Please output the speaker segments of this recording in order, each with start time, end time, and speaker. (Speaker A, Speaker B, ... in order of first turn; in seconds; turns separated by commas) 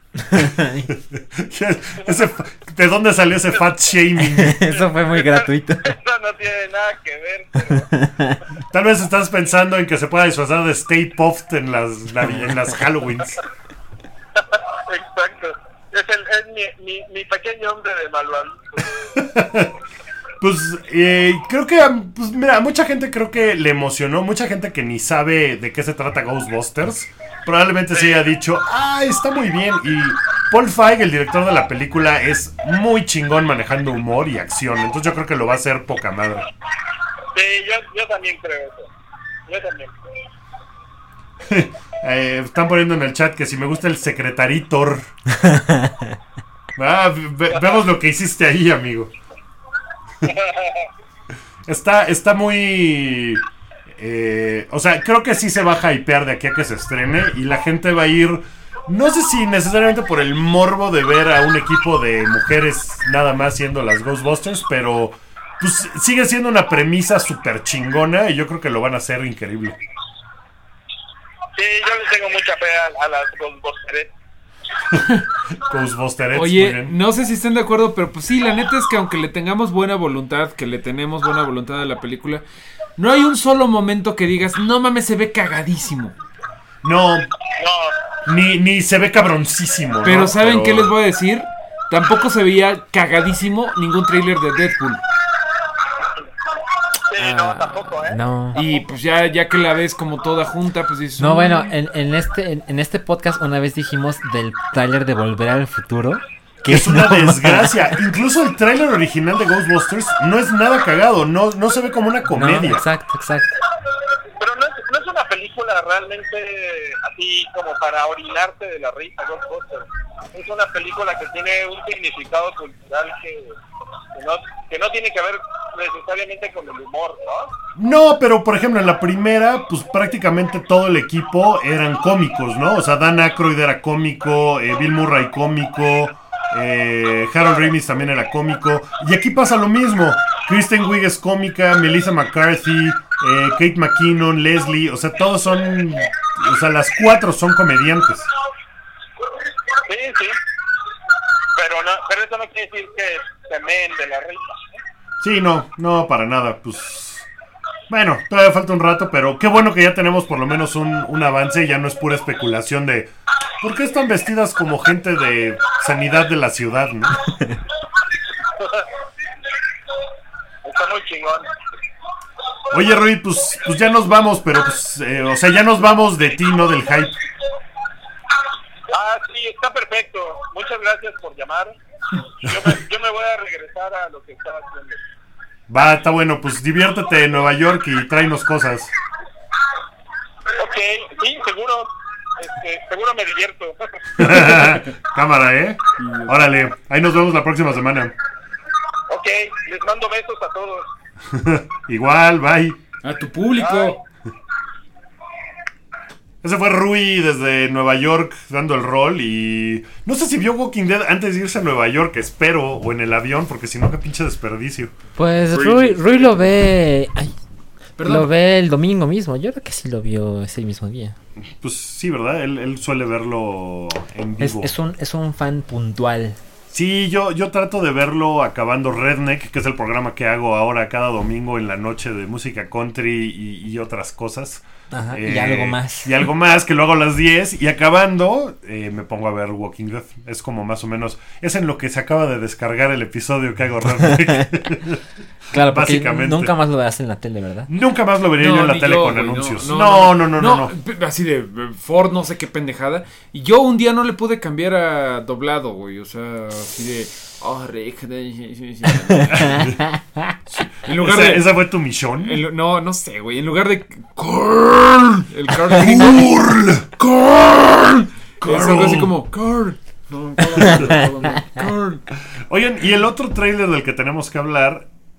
Speaker A: 0.3-0.9, Speaker B: 0.9-4.8, Speaker A: 4.3-6.0, Speaker C: 4.8-7.9, Speaker A: 7.7-8.4, Speaker B: 8.7-13.4, Speaker C: 14.4-19.2, Speaker B: 19.1-19.7, Speaker B: 20.4-36.5, Speaker C: 37.3-38.9, Speaker C: 39.5-40.0, Speaker B: 41.4-45.1, Speaker A: 45.3-46.2, Speaker B: 46.7-49.1, Speaker C: 50.2-50.9, Speaker B: 51.6-69.8, Speaker C: 71.5-74.1, Speaker B: 75.5-76.9, Speaker D: 76.3-82.4, Speaker D: 83.0-86.1, Speaker B: 86.8-87.3, Speaker C: 87.6-87.9, Speaker B: 88.2-90.9, Speaker D: 90.0-95.0, Speaker C: 97.1-98.2, Speaker A: 97.2-98.6, Speaker D: 98.5-101.7, Speaker A: 101.2-107.8, Speaker B: 106.7-112.8, Speaker A: 112.3-113.5, Speaker C: 114.4-123.5, Speaker C: 124.1-127.5, Speaker B: 127.7-148.3, Speaker C: 149.8-150.4, Speaker C: 151.5-154.8, Speaker B: 155.2-157.3, Speaker B: 157.9-167.3, Speaker C: 168.6-168.9, Speaker C: 170.6-171.5, Speaker B: 172.7-177.2, Speaker C: 178.9-181.8, Speaker C: 182.3-185.0, Speaker B: 185.7-188.9, Speaker C: 190.6-194.6, Speaker B: 194.2-198.1, Speaker D: 196.0-196.3, Speaker C: 199.1-200.9, Speaker B: 201.3-202.8, Speaker D: 203.0-204.0, Speaker C: 203.6-203.9, Speaker B: 206.4-214.9, Speaker A: 215.2-217.3, Speaker D: 215.5-216.5, Speaker D: 218.0-218.3, Speaker A: 218.0-221.2, Speaker B: 221.4-224.7, Speaker A: 224.4-226.4, Speaker B: 226.7-245.0, Speaker A: 234.9-236.2, Speaker A: 245.5-247.7, Speaker B: 245.5-246.5, Speaker B: 247.7-250.7, Speaker D: 248.4-259.7, Speaker B: 259.3-259.8, Speaker A: 259.6-260.3, Speaker B: 260.5-262.4, Speaker D: 260.8-261.6, Speaker D: 262.2-266.4, Speaker B: 265.6-266.9, Speaker D: 267.0-272.0, Speaker B: 268.4-269.1, Speaker B: 270.5-271.0, Speaker A: 270.6-271.4, Speaker B: 272.3-274.9